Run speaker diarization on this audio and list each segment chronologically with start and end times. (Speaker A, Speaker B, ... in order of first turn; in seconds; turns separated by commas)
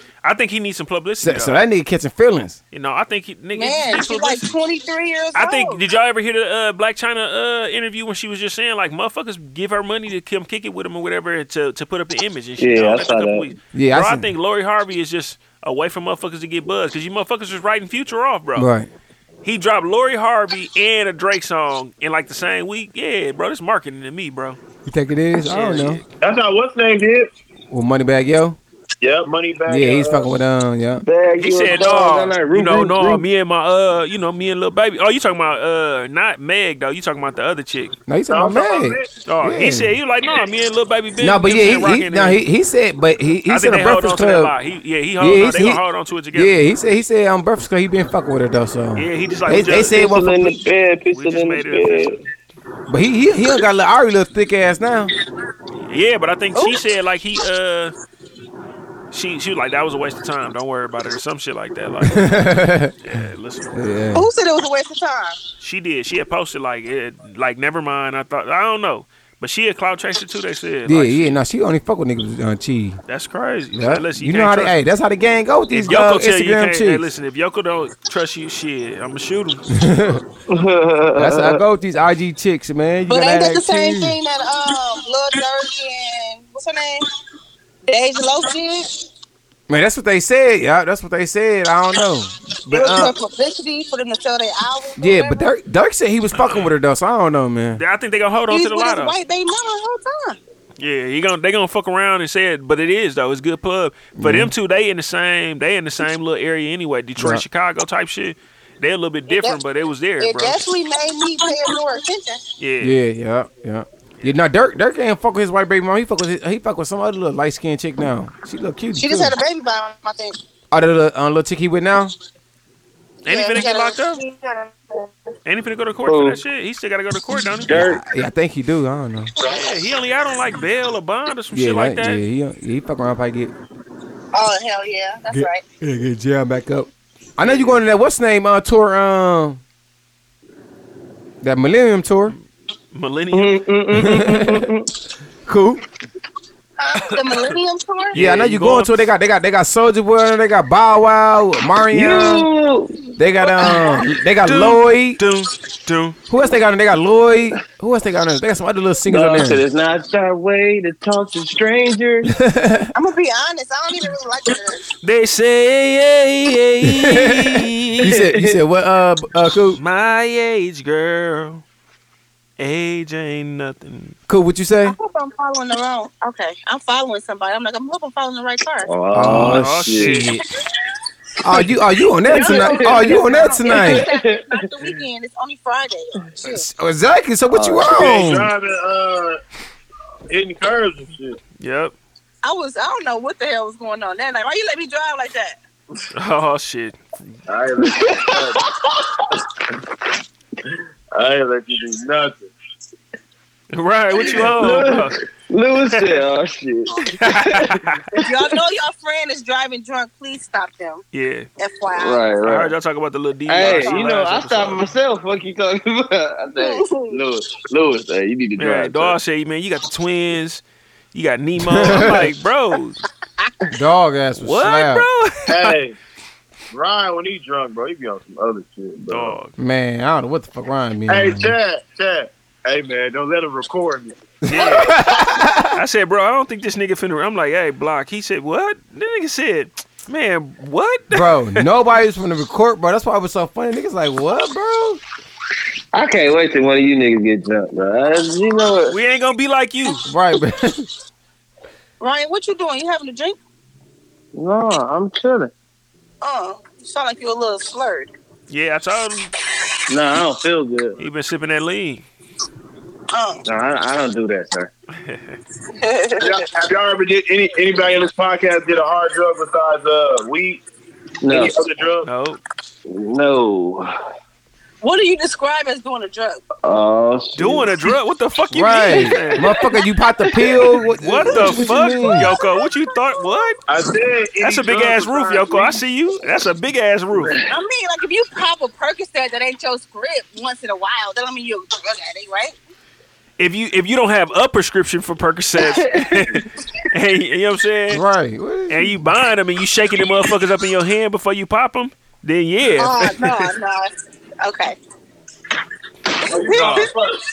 Speaker A: 0.2-1.6, Speaker B: 1.2-2.6, Speaker A: 2.7-4.5, Speaker C: 3.5-5.8, Speaker A: 5.3-18.7, Speaker D: 12.6-13.5, Speaker B: 13.7-14.3, Speaker B: 18.6-18.9, Speaker A: 19.4-24.6, Speaker B: 24.9-26.0, Speaker A: 25.5-26.0, Speaker E: 26.2-27.3, Speaker B: 27.7-28.6, Speaker E: 29.0-30.3, Speaker B: 29.7-31.0, Speaker D: 31.0-33.2, Speaker A: 31.4-38.0, Speaker B: 38.1-40.0, Speaker E: 38.3-39.1, Speaker A: 39.3-42.4, Speaker B: 41.2-44.5, Speaker A: 43.5-46.5, Speaker B: 45.2-45.8, Speaker B: 46.3-50.5, Speaker A: 49.0-50.1, Speaker D: 49.6-52.2, Speaker A: 51.1-52.2, Speaker B: 52.9-55.1, Speaker A: 55.9-58.0, Speaker A: 59.1-62.4, Speaker B: 62.0-62.9, Speaker A: 63.0-63.7, Speaker B: 63.7-64.3, Speaker C: 64.1-65.4, Speaker A: 65.6-71.4, Speaker B: 70.9-73.0, Speaker A: 73.1-74.8, Speaker B: 73.7-77.0, Speaker A: 75.7-79.6, Speaker B: 79.7-80.2, Speaker D: 80.5-81.6, Speaker B: 81.2-84.2, Speaker C: 83.1-87.1, Speaker C: 87.9-89.0, Speaker B: 89.7-93.1, Speaker C: 92.7-95.5, Speaker B: 95.0-97.8, Speaker A: 96.3-96.7, Speaker A: 97.8-99.2, Speaker C: 98.5-100.4, Speaker A: 100.8-110.6, Speaker B: 104.2-104.5, Speaker B: 107.2-107.4, Speaker C: 109.3-109.6, Speaker C: 110.2-112.4, Speaker A: 112.6-113.0, Speaker B: 112.8-119.4, Speaker C: 119.0-120.4, Speaker B: 120.7-122.2, Speaker A: 123.2-124.2, Speaker C: 123.2-125.1, Speaker A: 125.5-127.9, Speaker D: 126.1-126.4, Speaker D: 127.7-128.0, Speaker B: 127.7-129.3, Speaker A: 129.4-132.2, Speaker B: 131.5-133.5, Speaker C: 134.3-135.6, Speaker B: 135.3-139.6, Speaker A: 137.4-137.8, Speaker B: 141.4-142.3, Speaker A: 142.9-143.6, Speaker D: 143.3-144.9, Speaker B: 144.0-144.7, Speaker B: 145.5-145.8, Speaker C: 146.8-148.2, Speaker A: 147.0-147.6, Speaker A: 148.1-149.1, Speaker B: 148.2-152.5, Speaker D: 151.9-153.2, Speaker B: 153.2-155.2, Speaker C: 153.6-154.1, Speaker A: 154.4-156.2, Speaker B: 156.3-159.6, Speaker D: 159.1-162.3, Speaker B: 162.3-162.9, Speaker C: 162.9-164.8, Speaker A: 165.0-168.1, Speaker B: 166.8-169.8, Speaker D: 168.0-168.6, Speaker A: 169.8-171.6, Speaker A: 172.6-174.2, Speaker B: 174.3-175.0, Speaker C: 174.8-178.9, Speaker D: 178.8-180.2, Speaker B: 179.1-180.4, Speaker A: 179.3-180.4, Speaker B: 181.4-184.1, Speaker C: 182.2-186.7, Speaker D: 182.3-184.7, Speaker B: 186.5-188.5, Speaker D: 187.5-187.9, Speaker E: 187.9-189.4, Speaker E: 190.3-191.4, Speaker A: 191.6-191.9, Speaker C: 192.4-195.6, Speaker A: 196.1-197.0, Speaker E: 197.5-198.6, Speaker D: 197.9-198.4, Speaker E: 201.1-202.5, Speaker A: 203.7-205.2, Speaker D: 204.2-208.3, Speaker A: 207.1-208.0, Speaker C: 208.2-211.0, Speaker A: 211.1-211.5, Speaker C: 211.6-212.2, Speaker D: 211.9-212.8, Speaker A: 212.4-214.8, Speaker D: 213.5-219.2, Speaker C: 213.6-214.1, Speaker C: 216.6-217.2, Speaker A: 218.6-220.6, Speaker A: 221.1-223.0, Speaker B: 221.6-222.3, Speaker B: 223.7-225.1, Speaker A: 224.4-225.8, Speaker E: 225.5-226.0, Speaker E: 226.7-229.4, Speaker A: 229.1-229.5, Speaker B: 229.6-231.6, Speaker E: 231.1-234.2, Speaker B: 234.4-235.8, Speaker A: 234.5-235.2, Speaker A: 235.8-241.7, Speaker B: 241.1-245.0, Speaker D: 245.9-248.9, Speaker A: 248.9-250.0, Speaker B: 250.1-250.9, Speaker C: 252.0-253.4, Speaker D: 254.3-255.5, Speaker C: 256.2-258.1, Speaker A: 258.5-259.3, Speaker D: 259.9-261.0, Speaker A: 261.0-262.0, Speaker C: 263.1-263.4, Speaker D: 263.4-264.7, Speaker A: 265.0-265.4, Speaker C: 265.8-266.4, Speaker E: 266.2-270.6, Speaker D: 271.2-271.5, Speaker E: 271.3-272.1, Speaker A: 272.1-272.4, Speaker D: 272.9-273.9, Speaker C: 274.8-276.4, Speaker D: 276.6-277.7, Speaker A: 277.4-279.7, Speaker B: 278.5-282.3, Speaker C: 279.8-280.6, Speaker A: 281.0-283.6, Speaker E: 283.7-285.8, Speaker A: 284.4-287.4, Speaker D: 287.1-287.5, Speaker C: 287.5-292.6, Speaker A: 293.4-298.0, Speaker D: 295.7-296.4, Speaker B: 297.9-299.0, Speaker A: 298.7-303.5, Speaker C: 302.7-304.8, Speaker C: 306.2-306.9, Speaker E: 306.2-307.2